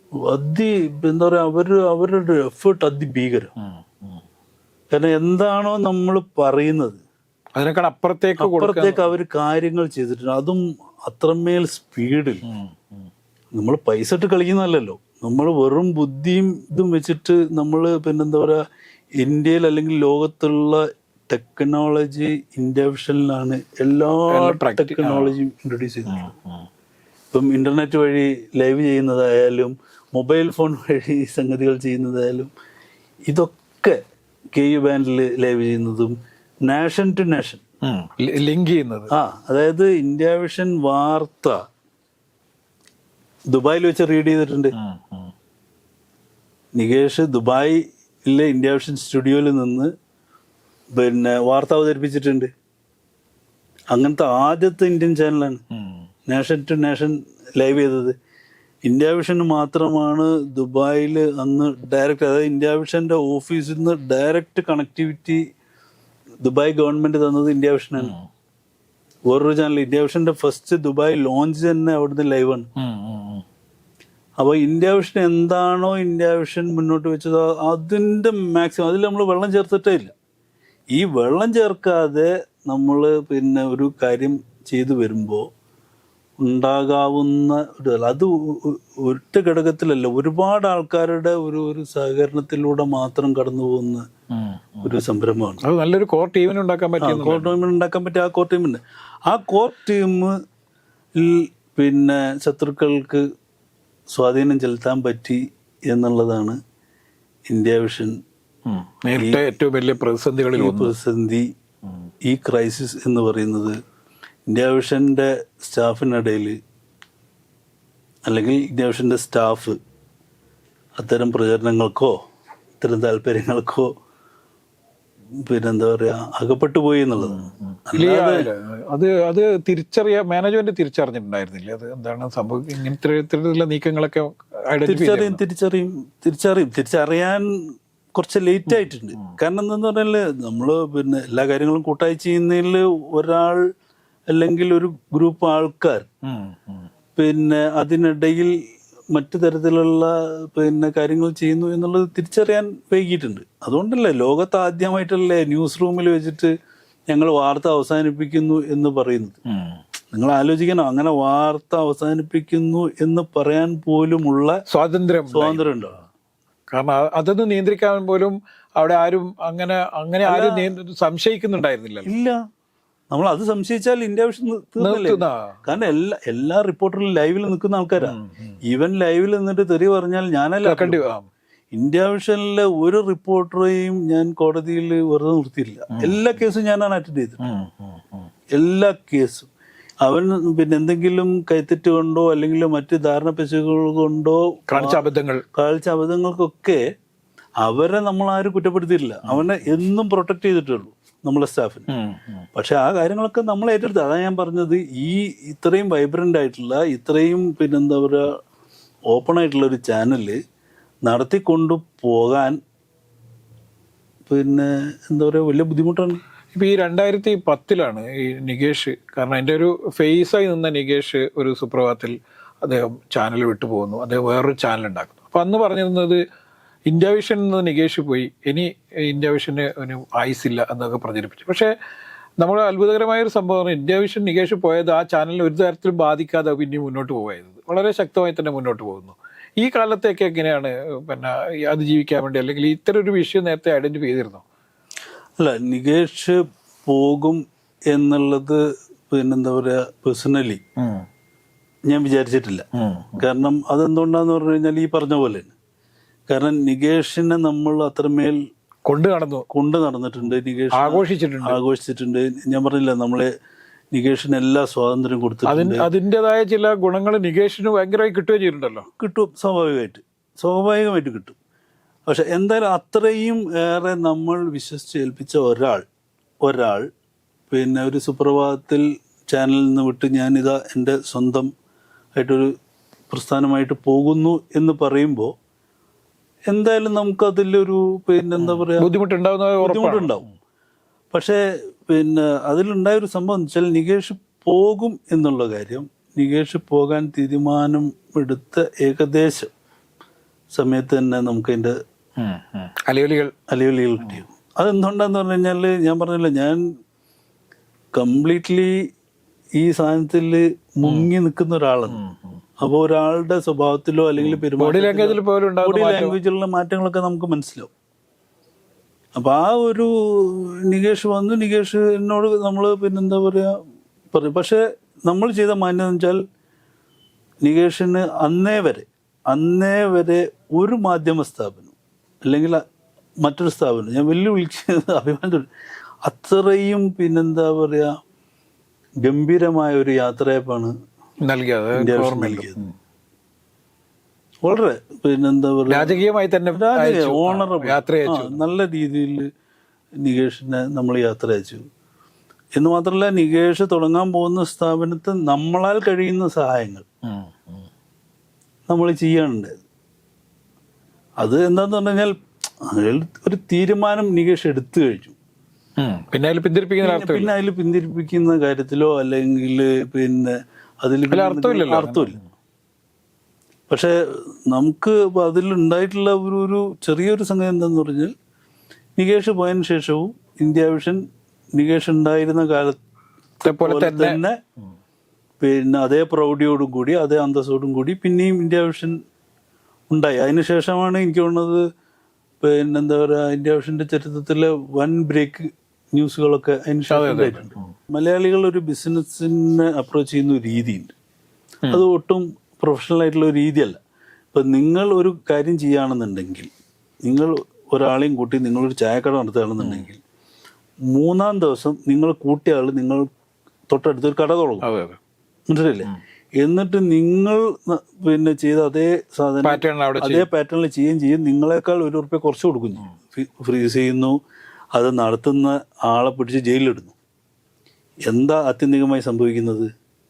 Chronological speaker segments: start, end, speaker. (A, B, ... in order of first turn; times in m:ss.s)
0:00.3-0:03.5 A
0:03.6-0:04.2 B
0:04.9-0:07.0 A
0:07.6-0:09.1 B
0:08.4-0:12.4 A
0:12.4-0:13.1 B
0:13.5-0:18.6 A
0:19.2-0:26.3 A
0:24.3-0:25.3 B
0:26.1-0:26.7 B
0:27.3-0:32.5 A
0:33.3-0:34.0 A
0:34.5-0:36.1 A
0:36.6-0:37.6 A
0:37.8-0:39.1 B
0:39.1-0:41.6 A
0:43.5-0:44.8 A
0:44.8-0:45.3 B
0:46.8-0:49.9 A
0:51.0-0:52.5 A
0:53.9-0:55.6 A
0:55.8-0:56.0 B
0:56.3-0:58.1 A
0:58.8-1:05.4 A
1:06.4-1:08.1 A
1:08.0-1:08.3 B
1:09.3-1:12.6 A
1:12.8-1:13.4 B
1:14.4-1:20.1 A
1:20.9-1:25.4 A
1:26.4-1:34.0 A
1:34.3-1:34.9 B
1:34.8-1:35.6 A
1:35.6-1:37.5 B
1:37.0-1:40.3 A
1:41.2-1:43.2 A
1:44.1-1:46.6 A
1:47.5-1:48.1 A
1:48.6-1:50.9 B
1:49.1-1:49.4 A
1:50.6-1:51.4 A
1:52.2-1:53.8 A
1:54.5-1:56.6 A
1:58.3-1:59.8 A
2:01.0-2:02.1 A
2:02.8-2:03.9 A
2:05.4-2:08.5 A
2:07.2-2:15.4 B
2:14.8-2:17.4 A
2:18.2-2:23.6 A
2:18.7-2:19.4 B
2:24.3-2:26.1 A
2:26.2-2:26.9 B
2:27.2-2:28.5 A
2:29.1-2:36.5 A
2:37.1-2:39.4 A
2:39.5-2:39.8 B
2:40.1-2:44.6 A
2:44.7-2:45.6 B
2:45.3-2:46.0 A
2:46.7-2:52.1 B
2:50.2-2:50.7 A
2:52.1-2:52.4 A
2:53.1-3:01.0 A
2:54.8-2:55.6 B
2:58.0-2:58.6 B
3:00.6-3:01.3 B
3:01.7-3:07.4 A
3:05.9-3:06.2 B
3:07.4-3:08.3 B
3:08.5-3:09.5 A
3:10.0-3:15.0 A
3:14.7-3:15.4 B
3:15.5-3:16.8 A
3:17.6-3:21.9 A
3:21.9-3:22.4 B
3:22.6-3:28.3 A
3:29.1-3:30.4 A
3:31.0-3:32.6 A
3:34.3-3:36.2 A
3:36.5-3:46.2 B
3:46.9-3:51.7 B
3:52.4-4:04.4 B
4:05.4-4:10.6 A
4:10.8-4:11.1 B
4:11.9-4:12.6 A
4:12.8-4:13.2 B
4:13.2-4:15.5 A
4:16.3-4:18.4 A
4:18.8-4:19.4 B
4:19.5-4:23.3 A
4:20.7-4:21.6 B
4:23.9-4:25.8 A
4:25.5-4:28.9 B
4:29.0-4:31.4 A
4:32.1-4:35.8 A
4:36.4-4:36.9 A
4:37.5-4:41.5 A
4:42.2-4:42.5 A
4:43.1-4:45.3 A
4:46.5-4:48.9 A
4:48.4-4:50.2 B
4:49.6-4:50.3 A
4:51.1-4:59.5 A
5:00.5-5:01.7 A
5:02.2-5:03.3 B
5:03.5-5:06.6 A
5:07.9-5:08.7 A
5:09.6-5:12.0 A
5:10.8-5:11.1 B
5:11.9-5:12.4 B
5:12.6-5:17.7 A
5:14.2-5:16.2 B
5:19.2-5:23.5 A
5:24.1-5:26.2 A
5:27.4-5:31.7 A
5:32.2-5:32.6 A
5:33.2-5:35.4 A
5:36.0-5:37.9 A
5:39.0-5:40.7 A
5:41.2-5:42.7 B
5:41.8-5:42.6 A
5:44.4-5:46.0 A
5:45.7-5:48.4 B
5:46.5-5:49.3 A
5:50.0-5:51.6 A
5:52.6-5:56.8 A
5:57.0-5:57.7 B
5:58.7-5:59.5 A
6:01.2-6:02.2 A
6:02.7-6:05.1 A
6:05.8-6:07.3 B
6:06.8-6:12.2 A
6:11.1-6:12.2 B
6:13.7-6:13.9 A
6:14.5-6:18.1 A
6:19.0-6:21.0 A
6:21.6-6:22.8 A
6:23.4-6:24.2 B
6:23.4-6:24.4 A
6:25.4-6:28.9 A
6:29.9-6:31.6 A
6:32.4-6:40.9 A
6:36.9-6:37.7 B
6:41.7-6:43.8 A
6:44.3-6:46.5 A
6:47.1-6:50.0 A
6:49.6-6:49.9 B
6:50.9-6:53.1 A
6:53.7-6:54.7 A
6:54.6-6:55.0 B
6:55.5-6:55.9 A
6:56.4-7:04.2 A
6:59.4-7:00.3 B
7:04.7-7:06.9 A
7:08.1-7:09.7 A